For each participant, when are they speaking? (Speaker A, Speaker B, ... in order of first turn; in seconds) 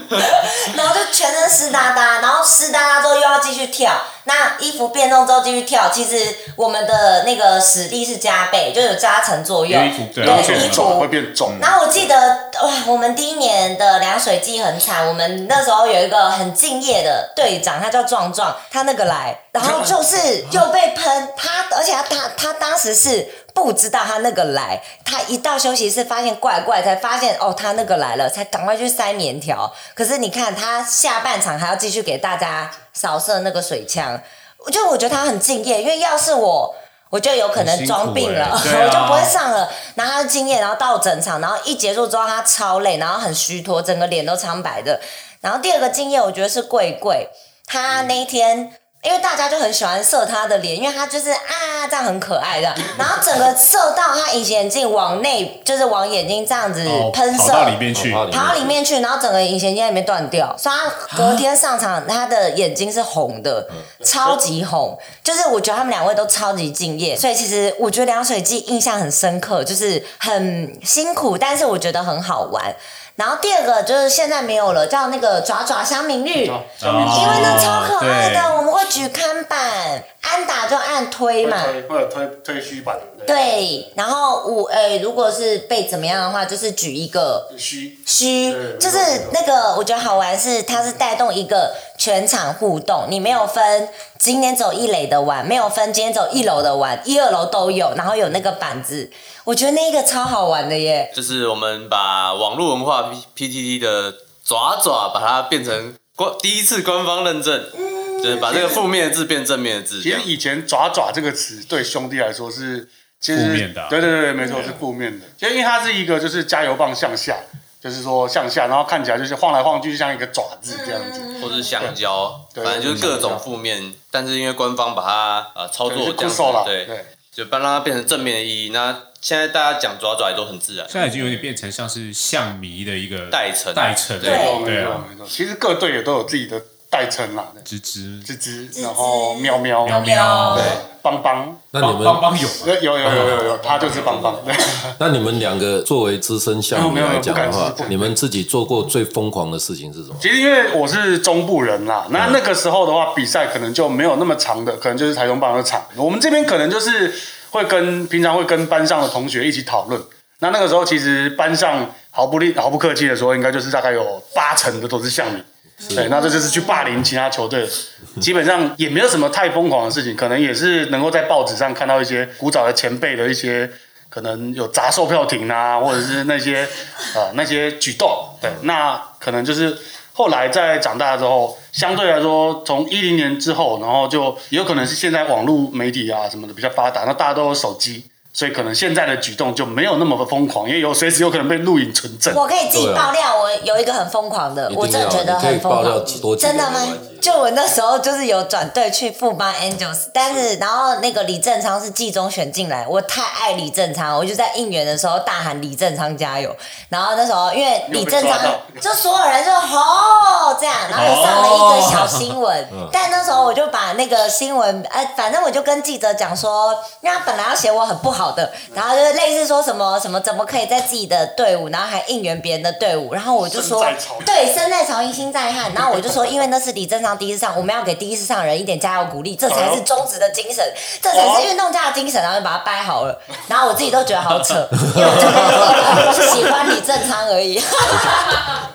Speaker A: 0.2-81.8, 83.3-87.5, 88.1-101.1, 107.7-108.8, 114.4-114.8, 120.7-121.8, 131.1-131.4, 134.2-134.6, 138.7-140.8, 165.8-166.9, 192.3-238.6
Speaker B: 9.7-11.6, 37.5-39.4, 56.9-58.3, 61.1-61.4, 76.8-78.6, 113.3-114.0, 130.9-135.1, 137.7-138.3, 139.8-140.8, 141.8-144.3, 210.9-212.3, 235.1-236.1
Speaker C: 10.2-11.8, 64.0-64.4, 76.5-77.7, 81.4-83.8, 87.5-89.4, 110.0-122.0, 122.5-123.5, 125.9-127.1, 134.2-137.7, 138.3-141.7, 142.6-144.9, 146.7-148.2, 150.2-192.4, 207.9-208.8, 223.4-224.4, 229.5-229.8, 231.1-231.5
Speaker D: 57.9-58.8, 141.7-142.3, 143.0-144.4, 145.0-150.2, 152.1-152.4, 192.7-193.1, 194.7-197.3, 212.7-213.0, 234.9-235.7
Speaker E: 101.1-110.3, 121.4-131.0, 133.3-134.5